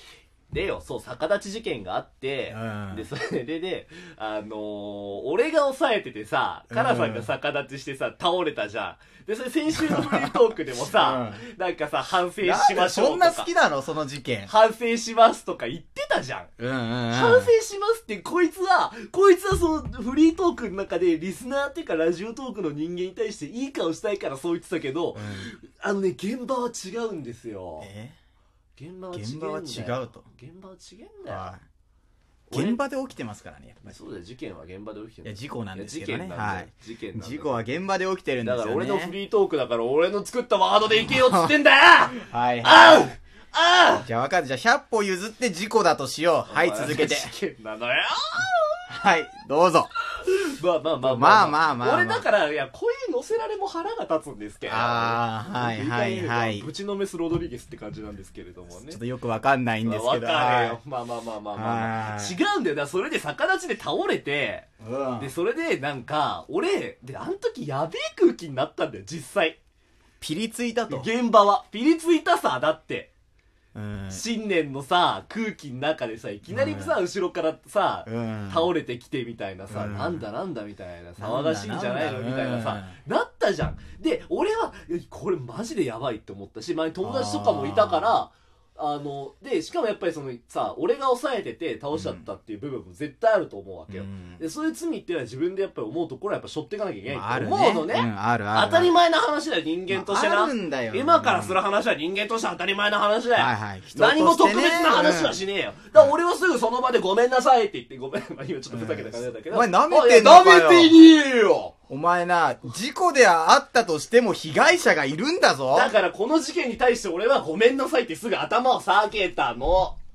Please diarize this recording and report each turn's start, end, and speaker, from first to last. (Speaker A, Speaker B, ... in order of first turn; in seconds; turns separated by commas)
Speaker A: 0.5-13.5, Speaker B: 2.5-3.1, Speaker B: 6.7-7.3, Speaker B: 9.7-11.4, Speaker B: 12.4-14.5, Speaker A: 14.4-16.5, Speaker B: 16.6-17.5, Speaker A: 17.1-27.9, Speaker B: 25.1-25.5, Speaker B: 27.8-28.1, Speaker A: 28.8-31.5, Speaker B: 29.1-30.2, Speaker B: 31.3-31.6, Speaker A: 32.5-32.8, Speaker B: 32.5-34.0, Speaker A: 33.9-37.6, Speaker B: 35.2-39.1, Speaker A: 38.4-44.1, Speaker B: 40.9-41.5, Speaker B: 42.2-43.1, Speaker B: 44.0-47.3, Speaker A: 46.5-48.8, Speaker B: 48.9-49.9, Speaker A: 50.2-59.0, Speaker B: 51.0-52.3, Speaker B: 54.6-56.7, Speaker B: 58.7-60.8, Speaker A: 59.8-64.7, Speaker B: 61.5-62.4, Speaker B: 64.8-65.3, Speaker A: 65.2-69.6, Speaker B: 70.2-71.1, Speaker A: 70.9-73.1, Speaker B: 73.7-74.2, Speaker A: 74.1-111.7, Speaker B: 76.5-77.0, Speaker B: 78.0-78.7, Speaker B: 79.7-80.2, Speaker B: 81.2-83.0, Speaker B: 87.0-88.2, Speaker B: 91.9-92.2, Speaker B: 93.9-94.4, Speaker B: 97.1-99.0, Speaker B: 99.9-101.6, Speaker B: 103.3-105.4, Speaker B: 108.7-111.1, Speaker B: 111.9-115.9, Speaker A: 115.7-120.0